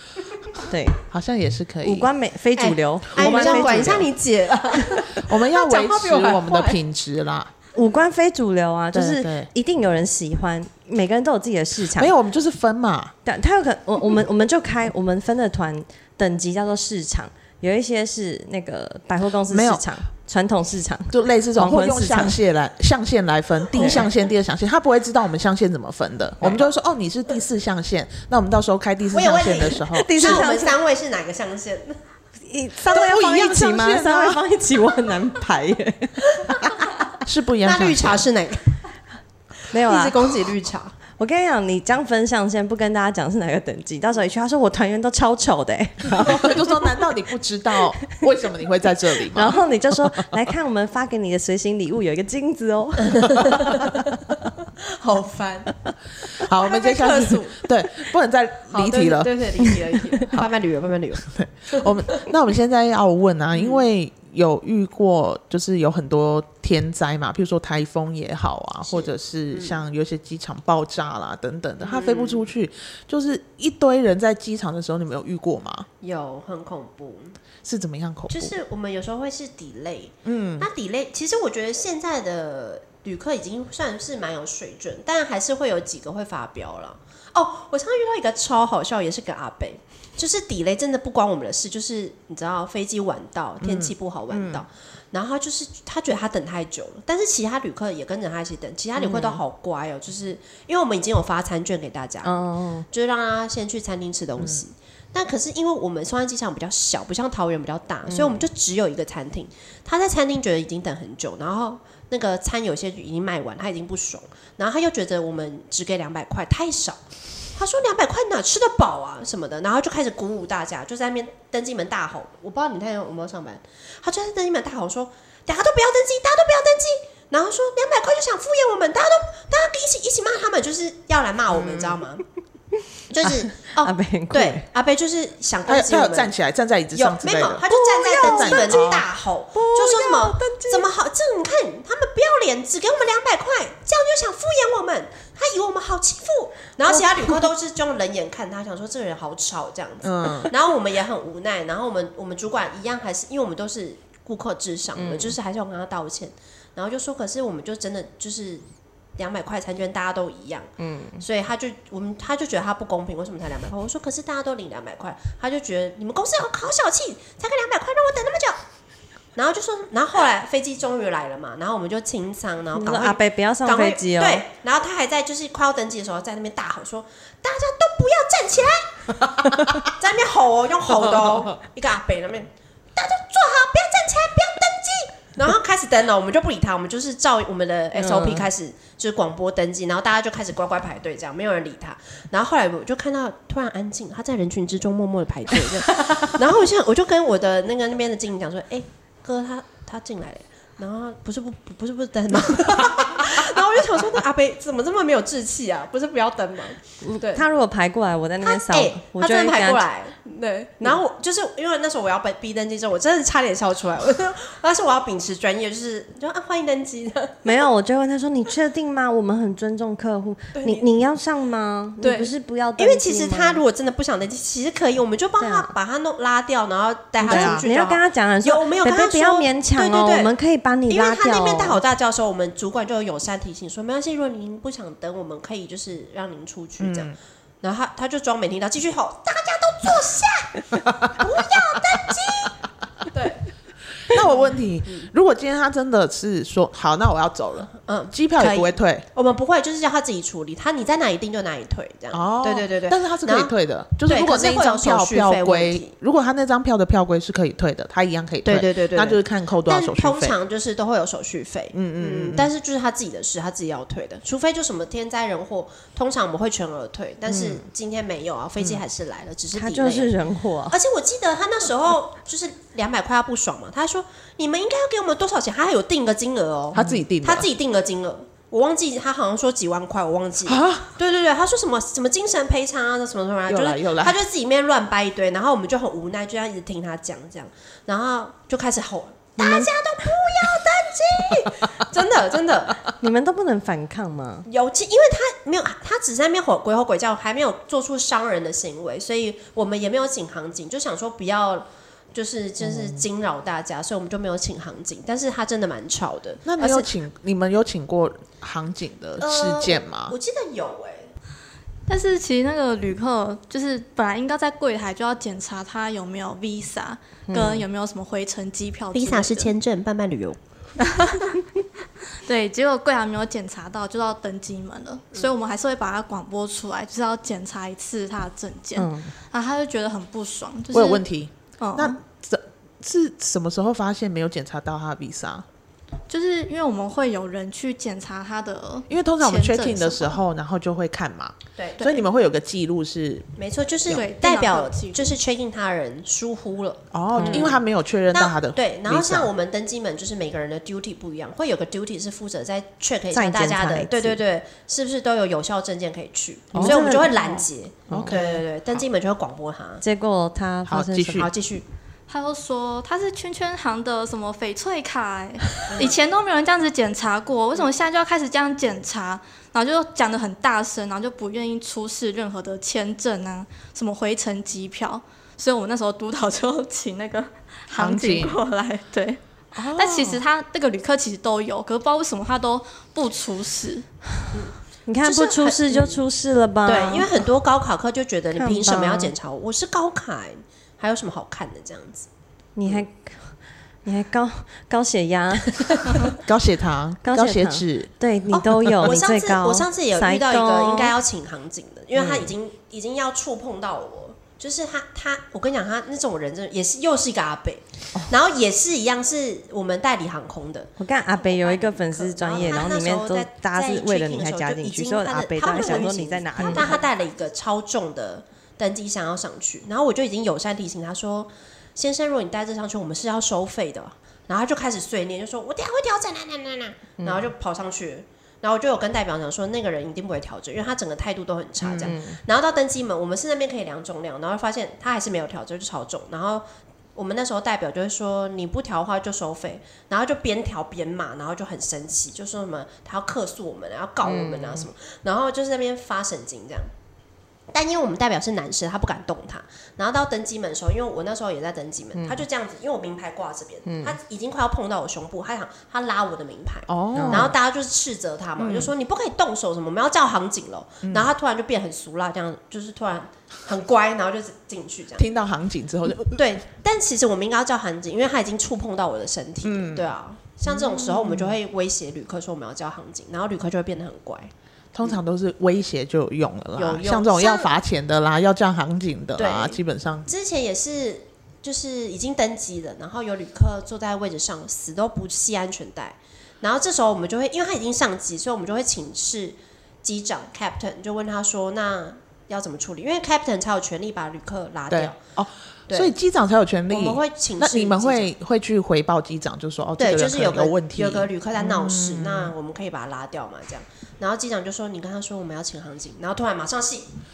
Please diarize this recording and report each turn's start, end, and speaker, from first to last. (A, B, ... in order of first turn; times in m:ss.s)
0:00.6-0:01.0 A
0:01.1-0:02.1 B
0:01.8-0:04.1 A
0:02.6-0:06.8 C
0:03.2-0:04.1 B
0:05.2-0:07.5 B
0:07.7-0:12.1 A
0:08.9-0:09.5 B
0:12.0-0:13.1 B
0:13.2-0:22.4 A
0:19.5-0:19.8 B
0:21.1-0:30.5 B
0:23.8-0:24.1 A
0:29.1-0:32.0 C
0:29.9-0:30.8 A
0:32.4-0:36.7 A
0:32.8-0:34.4 B
0:37.2-0:38.2 B
0:37.6-0:38.7 C
0:39.7-0:40.2 A
0:39.7-0:41.0 C
0:41.2-0:46.7 A
0:46.2-0:49.6 B
0:49.3-0:53.9 A
0:53.2-0:53.9 C
0:54.9-0:55.7 C
0:56.4-0:57.6 C
0:56.4-0:59.4 B
0:58.7-1:02.3 C
1:01.2-1:15.9 B
1:03.5-1:03.8 C
1:08.9-1:09.8 C
1:11.8-1:12.5 C
1:16.0-1:17.4 C
1:17.6-1:18.6 B
1:18.3-1:42.4 C
1:20.2-1:20.7 B
1:33.6-1:34.6 B
1:39.0-1:39.4 A
1:42.2-1:42.9 A
1:42.9-1:57.0 C
1:44.4-1:44.6 B
1:48.1-1:48.4 A
1:57.6-2:12.2 C
2:11.5-2:12.0 B
2:13.1-2:16.3 C
2:13.2-2:14.6 A
2:15.7-2:19.1 B
2:17.0-2:38.6 C
2:18.2-2:18.4 A
2:19.6-2:20.8 B
2:30.0-2:30.5 B
2:34.9-2:35.4 A
2:39.2-2:48.6 C
2:40.8-2:41.2 A
2:49.4-3:27.4 C
2:52.7-2:54.4 A
3:07.9-3:08.5 A
3:27.0-3:29.8 A
3:28.4-3:37.4 C
3:37.4-3:43.6 A
3:40.6-3:40.9 C
3:42.0-3:50.3 C
3:45.4-3:45.7 A
3:47.2-3:47.7 B
3:47.2-3:51.8 A
3:50.9-4:02.6 C
3:56.8-3:57.2 B
4:03.1-4:03.5 C
4:04.1-4:09.0 B
4:04.1-4:05.1 C
4:07.8-4:13.5 C
4:12.1-4:20.4 B
4:14.1-4:15.9 C
4:18.4-4:30.2 C
4:21.7-4:22.5 B
4:27.3-4:27.6 A
4:29.5-4:30.8 A
4:30.7-4:52.8 C
4:36.7-4:37.5 B
4:40.4-4:40.9 B
4:43.5-4:44.2 B
4:49.4-4:49.7 A
4:53.0-4:54.5 A
4:54.5-5:06.9 C
5:06.5-5:10.2 B
5:09.2-5:11.1 C
5:11.9-5:19.5 D
5:17.3-5:17.6 A
5:18.9-5:20.4 C
5:20.9-5:21.4 D
5:22.2-5:31.0 D
5:28.8-5:29.1 A
5:30.7-5:35.4 B
5:31.6-5:32.0 D
5:36.1-5:40.2 D
5:38.9-5:43.3 B
5:41.6-5:41.9 C
5:43.4-5:47.6 C
5:43.9-5:45.2 D
5:46.9-5:49.3 B
5:47.2-5:47.5 A
5:48.1-5:59.8 C
5:53.1-5:54.2 A
5:56.5-5:57.1 B
5:56.6-5:58.2 A
5:57.9-5:58.8 B
5:59.8-6:01.3 A
6:00.7-6:01.3 B
6:01.2-6:01.7 C
6:02.1-6:23.9 D
6:05.7-6:06.0 C
6:17.8-6:18.3 B
6:19.6-6:20.2 B
6:24.3-6:26.0 C
6:24.9-6:27.1 A
6:26.6-6:32.1 C
6:28.3-6:29.1 A
6:32.6-6:35.8 A
6:36.1-6:37.9 B
6:37.0-6:40.9 A
6:38.8-7:26.7 C
6:42.0-6:42.2 B
6:50.8-6:56.8 A
7:07.0-7:07.3 A
7:11.6-7:12.0 B
7:11.8-7:12.2 A
7:24.0-7:24.7 A
7:27.5-7:45.1 C
7:32.0-7:32.2 A
7:33.6-7:34.0 A
7:36.7-7:37.4 B
7:36.9-7:37.3 A
7:38.4-7:38.7 B
7:40.8-7:41.1 B
7:45.0-7:46.3 B
7:46.2-7:54.3 C
7:49.4-7:49.9 B
7:50.5-7:51.4 B
7:54.7-8:00.1 B
7:56.6-7:57.5 C
7:59.2-8:15.0 C
8:14.7-8:22.3 B
8:15.7-8:15.9 C
8:16.7-8:18.1 C
8:19.8-8:26.9 C